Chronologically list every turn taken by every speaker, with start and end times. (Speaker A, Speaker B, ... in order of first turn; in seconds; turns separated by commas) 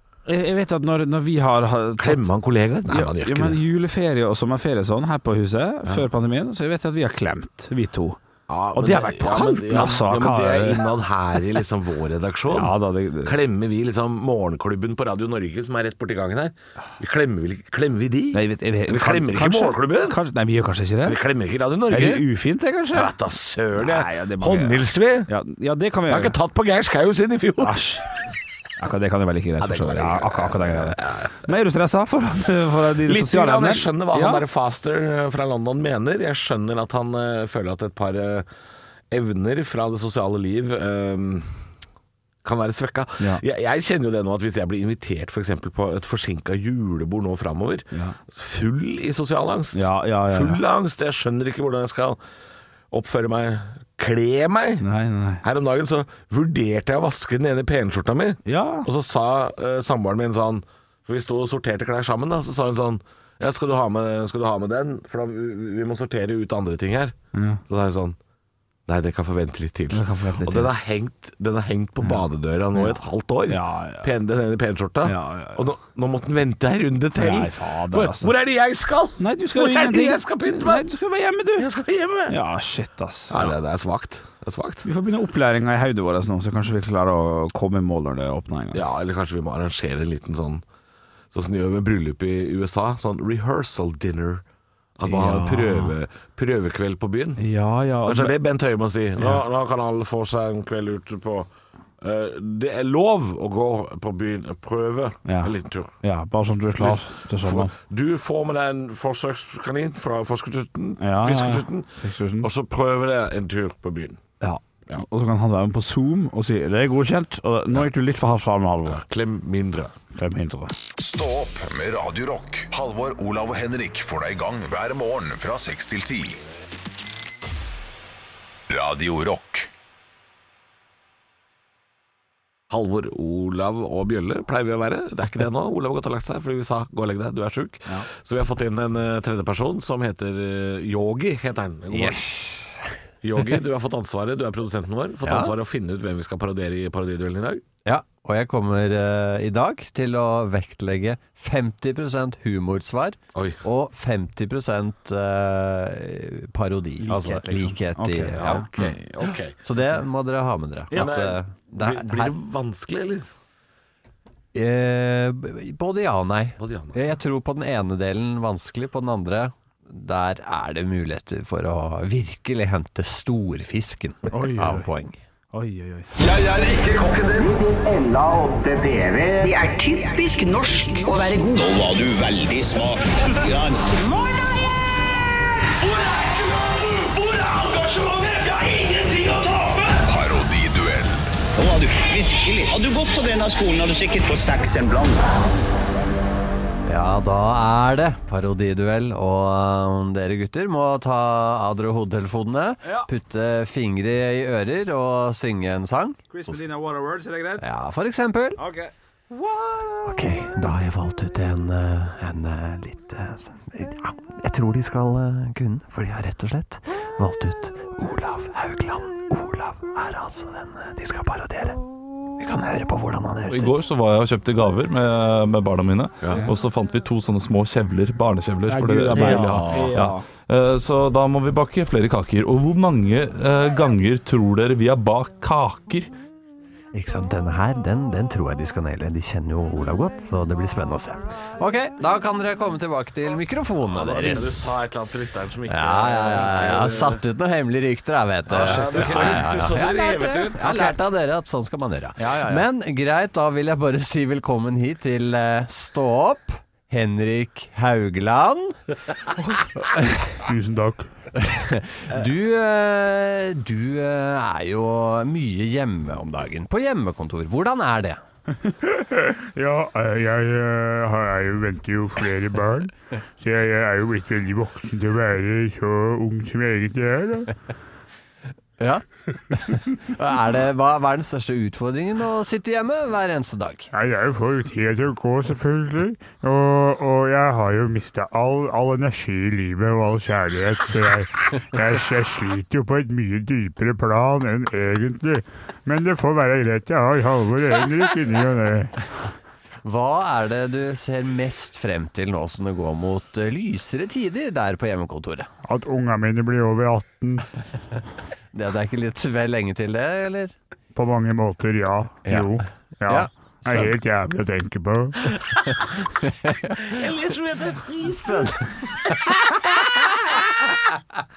Speaker A: 0.3-2.2, Speaker B: 2.0-3.6, Speaker A: 2.9-8.2, Speaker B: 8.5-20.2, Speaker A: 8.7-10.9, Speaker A: 12.5-13.3, Speaker A: 18.3-21.2, Speaker B: 21.0-22.3, Speaker A: 21.9-23.1, Speaker B: 22.9-25.3, Speaker A: 23.7-26.3, Speaker B: 26.1-27.8, Speaker A: 27.6-28.0, Speaker A: 28.8-34.4, Speaker B: 29.6-31.4, Speaker B: 33.0-38.5, Speaker B: 39.1-41.5, Speaker B: 42.4-52.2, Speaker A: 47.9-48.2, Speaker A: 49.7-50.6, Speaker B: 52.9-54.8, Speaker A: 54.8-55.4, Speaker B: 55.4-67.2, Speaker A: 58.5-58.9, Speaker A: 67.3-67.6, Speaker B: 67.7-68.2, Speaker B: 68.9-80.8, Speaker A: 69.9-70.7, Speaker A: 72.7-74.1, Speaker A: 75.0-75.6, Speaker A: 77.2-78.3, Speaker A: 79.2-81.7, Speaker B: 81.5-82.3, Speaker A: 82.3-83.5, Speaker B: 83.3-84.8, Speaker A: 84.8-88.8, Speaker B: 88.7-90.6, Speaker B: 91.3-94.4, Speaker B: 95.0-97.4, Speaker A: 95.1-95.9, Speaker A: 97.4-98.3, Speaker B: 98.0-101.5, Speaker B: 102.0-105.9, Speaker A: 105.2-107.7, Speaker B: 106.8-111.9, Speaker A: 111.0-112.5, Speaker B: 112.4-114.2, Speaker A: 114.4-119.0, Speaker B: 118.9-119.9, Speaker A: 120.2-120.7, Speaker C: 121.0-126.4, Speaker C: 128.7-129.7, Speaker B: 132.7-142.3, Speaker D: 141.9-142.9, Speaker B: 143.2-147.6, Speaker D: 145.2-145.5, Speaker D: 147.8-158.9, Speaker A: 157.0-158.7, Speaker B: 158.4-159.6, Speaker D: 159.6-162.3, Speaker B: 160.9-163.2, Speaker D: 164.5-175.2, Speaker B: 166.6-167.0, Speaker A: 174.3-174.8, Speaker A: 175.5-176.1, Speaker E: 176.2-184.4, Speaker E: 185.8-190.1, Speaker C: 190.1-191.3, Speaker E: 191.6-195.4, Speaker D: 196.8-206.2, Speaker A: 206.3-207.6, Speaker D: 207.6-208.6, Speaker A: 208.6-210.2, Speaker D: 210.1-221.8, Speaker D: 222.4-223.8, Speaker F: 223.5-236.1, Speaker A: 228.7-230.2, Speaker B: 229.3-229.8, Speaker D: 236.9-244.7, Speaker B: 243.9-247.2, Speaker D: 245.7-258.8, Speaker B: 248.5-250.9, Speaker A: 248.6-249.4, Speaker A: 252.2-252.6, Speaker D: 259.4-260.1, Speaker G: 260.4-261.1, Speaker D: 261.4-268.2, Speaker G: 268.8-277.5, Speaker D: 278.8-283.9, Speaker G: 283.9-299.0, Speaker D: 299.8-305.5, Speaker G: 305.6-307.5, Speaker D: 308.5-310.5, Speaker G: 310.9-315.4, Speaker D: 313.1-313.9, Speaker D: 316.2-317.0, Speaker B: 317.7-318.3, Speaker D: 318.0-319.1